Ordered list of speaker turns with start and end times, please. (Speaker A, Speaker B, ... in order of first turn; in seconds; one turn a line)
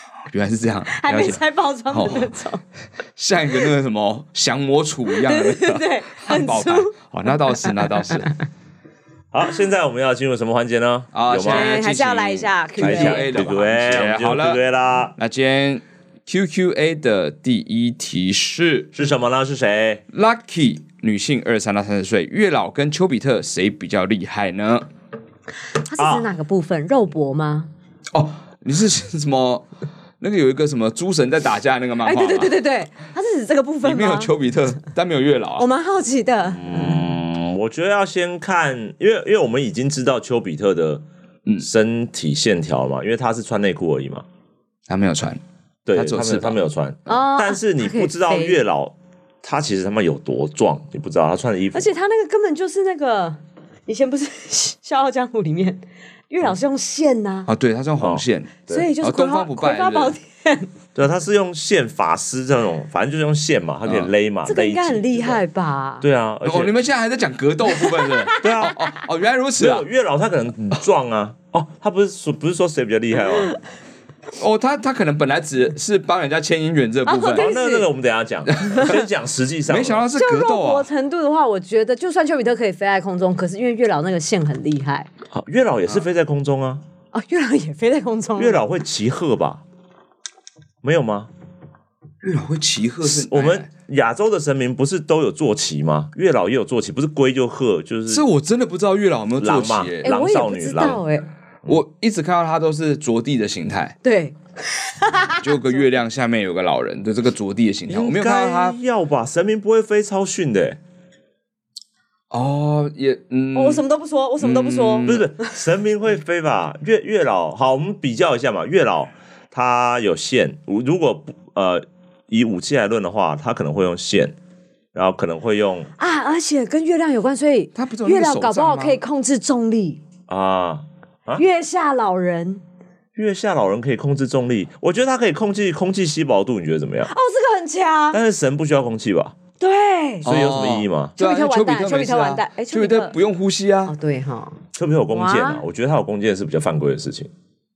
Speaker A: 0.3-2.3
Speaker B: 0.9-2.6
Speaker A: 3.2-8.3
Speaker B: 5.2-6.9
Speaker C: 9.3-11.8
Speaker A: 11.1-14.6
Speaker B: 11.4-13.7
Speaker C: 12.8-15.2
Speaker A: 15.2-18.9
Speaker C: 18.9-20.0
Speaker A: 20.1-24.9
Speaker B: 25.9-27.7
Speaker C: 26.0-26.3
Speaker A: 28.1-29.7
Speaker A: 30.2-32.6
Speaker B: 32.0-34.3
Speaker A: 33.8-35.6
Speaker B: 35.6-37.1
Speaker C: 36.5-41.0
Speaker C: 41.6-44.2
Speaker A: 44.9-45.4
Speaker C: 45.9-51.9
Speaker A: 45.9-46.6
Speaker B: 47.1-48.6
Speaker B: 51.7-57.5
Speaker A: 57.5-60.2
Speaker C: 58.0-58.9
Speaker B: 58.7-60.7
Speaker C: 61.0-65.4
Speaker B: 64.5-66.0
Speaker C: 66.0-66.7
Speaker A: 66.5-69.9
Speaker B: 67.8-68.7
Speaker C: 68.4-68.8
Speaker C: 69.6-73.6
Speaker A: 74.4-77.5
Speaker B: 77.0-77.9
Speaker C: 77.3-80.0
Speaker A: 78.5-79.0
Speaker A: 79.7-80.9
Speaker B: 80.2-85.1
Speaker C: 85.3-86.8
Speaker B: 87.1-88.6
Speaker C: 88.4-89.6
Speaker C: 90.8-91.3
Speaker A: 92.2-93.7
Speaker C: 93.0-98.3
Speaker A: 98.1-100.1
Speaker C: 99.4-101.0
Speaker B: 100.0-101.3
Speaker A: 101.7-104.0
Speaker B: 104.0-105.8
Speaker A: 105.4-108.8
Speaker C: 107.9-110.8
Speaker A: 112.3-113.8
Speaker B: 113.5-115.5
Speaker A: 114.4-115.3
Speaker C: 115.1-124.4
Speaker C: 124.9-125.9
Speaker B: 126.0-130.0
Speaker A: 127.8-129.0
Speaker C: 130.3-131.4
Speaker B: 131.4-132.6
Speaker C: 133.2-137.1
Speaker B: 137.1-138.2
Speaker C: 138.1-139.3
Speaker B: 139.6-140.3
Speaker A: 140.2-143.9
Speaker C: 140.2-141.2
Speaker B: 141.2-143.2
Speaker B: 143.9-145.6
Speaker C: 144.7-147.3